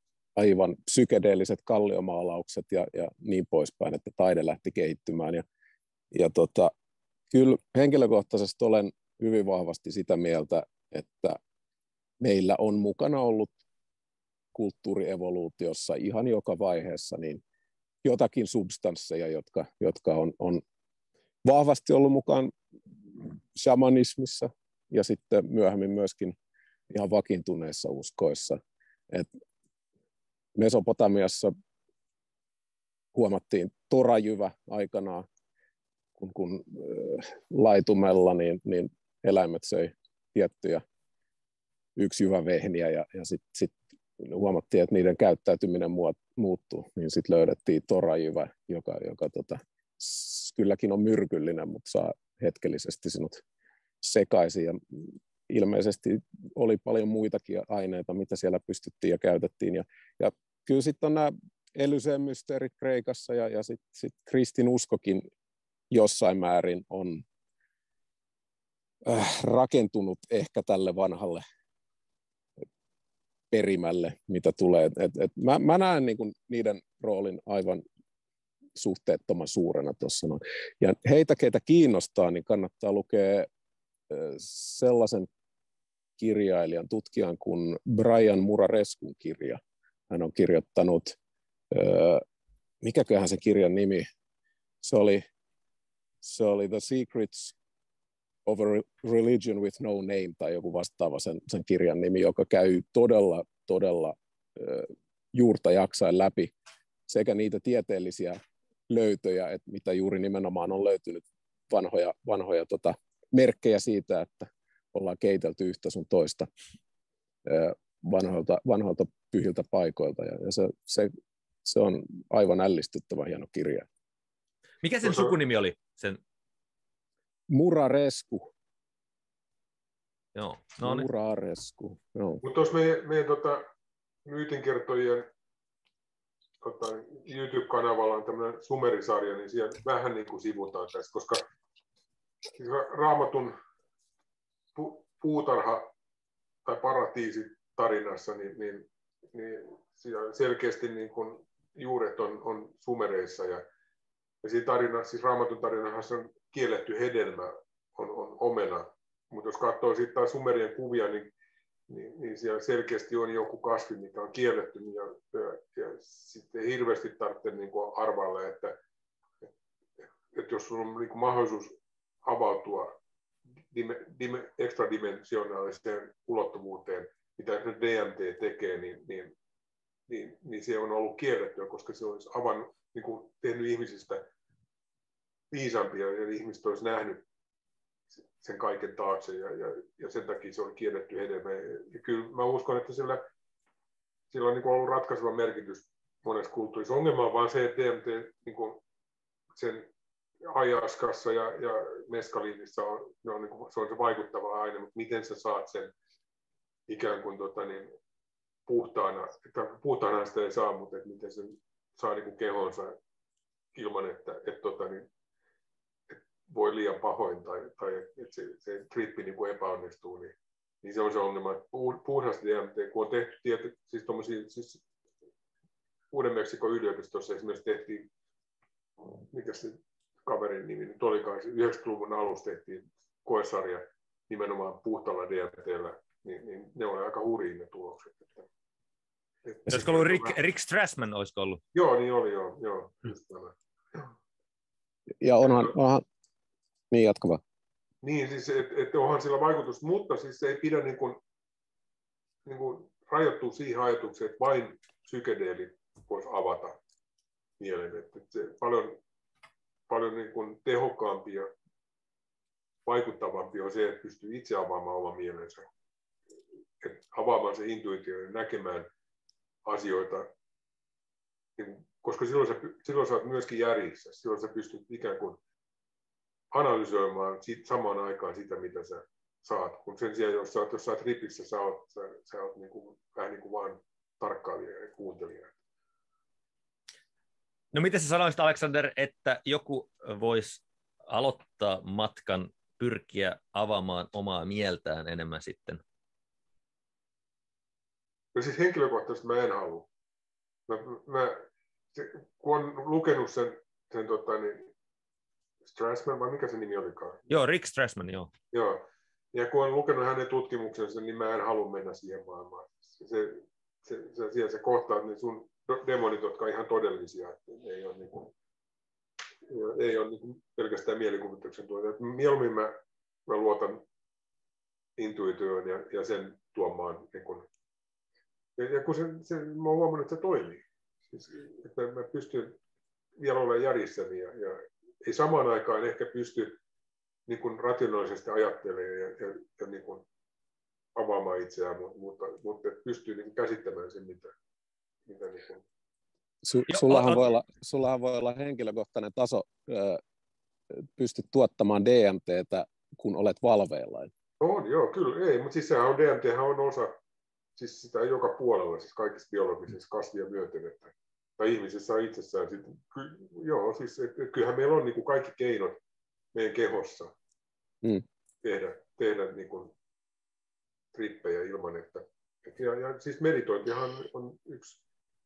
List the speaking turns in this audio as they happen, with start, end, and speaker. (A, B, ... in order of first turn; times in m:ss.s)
0:00.4-0:05.4 A
0:06.1-0:06.7 A
0:07.3-0:11.4 A
0:12.2-0:13.6 A
0:14.5-0:17.4 A
0:18.0-0:20.6 A
0:21.4-0:22.5 A
0:23.2-0:26.4 A
0:26.9-0:29.3 A
0:30.6-0:31.5 A
0:33.1-0:35.3 A
0:36.2-0:40.8 A
0:42.0-0:53.4 A
0:54.0-1:05.3 A
1:05.9-1:07.2 A
1:09.0-1:11.4 A
1:13.5-1:17.8 A
1:18.8-1:23.5 A
1:24.1-1:25.3 A
1:26.2-1:31.2 A
1:31.7-1:32.2 A
1:32.8-1:34.1 A
1:34.8-1:35.2 A
1:36.2-1:37.6 A
1:38.5-1:46.5 A
1:47.1-1:56.5 A
1:57.4-2:01.1 A
2:01.6-2:03.9 A
2:04.8-2:06.2 B
2:05.0-2:05.4 C
2:07.5-2:08.5 A
2:10.4-2:11.1 B
2:10.8-2:12.4 A
2:12.4-2:13.7 C
2:14.2-2:15.3 C
2:16.6-2:21.4 C
2:22.6-2:23.6 C
2:24.8-2:25.9 C
2:26.7-2:33.6 C
2:34.4-2:41.3 C
2:41.9-2:48.8 C
2:50.3-2:53.0 C
2:53.7-2:59.3 C
3:00.1-3:04.3 C
3:05.5-3:07.2 C
3:08.2-3:13.3 C
3:14.3-3:18.8 C
3:19.6-3:19.9 C
3:20.4-3:25.9 C
3:26.9-3:28.0 C
3:28.7-3:33.0 C
3:33.7-3:35.1 C
3:36.1-3:44.8 C
3:46.1-3:48.1 C
3:49.1-3:58.5 C
3:59.5-4:00.4 C
3:59.7-4:01.6 B
4:01.7-4:04.1 C
4:05.2-4:06.0 A
4:06.9-4:07.4 A
4:08.0-4:11.2 C
4:12.4-4:16.8 C
4:17.6-4:19.0 C
4:19.9-4:21.5 C
4:22.8-4:25.7 C
4:26.8-4:28.9 C
4:29.6-4:30.3 C
4:31.6-4:35.4 C
4:36.5-4:45.6 C
4:47.7-4:55.8 B
4:58.4-4:59.9 C
5:00.7-5:04.7 C
5:05.7-5:07.3 C
5:07.3-5:08.3 B
5:08.5-5:18.3 C
5:19.5-5:23.8 C
5:25.0-5:27.5 C
5:28.6-5:32.6 C
5:33.2-5:36.6 C
5:37.3-5:40.0 C
5:41.0-5:44.3 C
5:45.1-5:45.6 C
5:46.4-5:50.0 A
5:46.7-5:47.3 B
5:50.7-5:54.1 A
5:54.4-5:57.0 C
5:57.6-6:05.8 C
6:06.3-6:07.1 C
6:08.4-6:09.7 C
6:10.9-6:14.8 C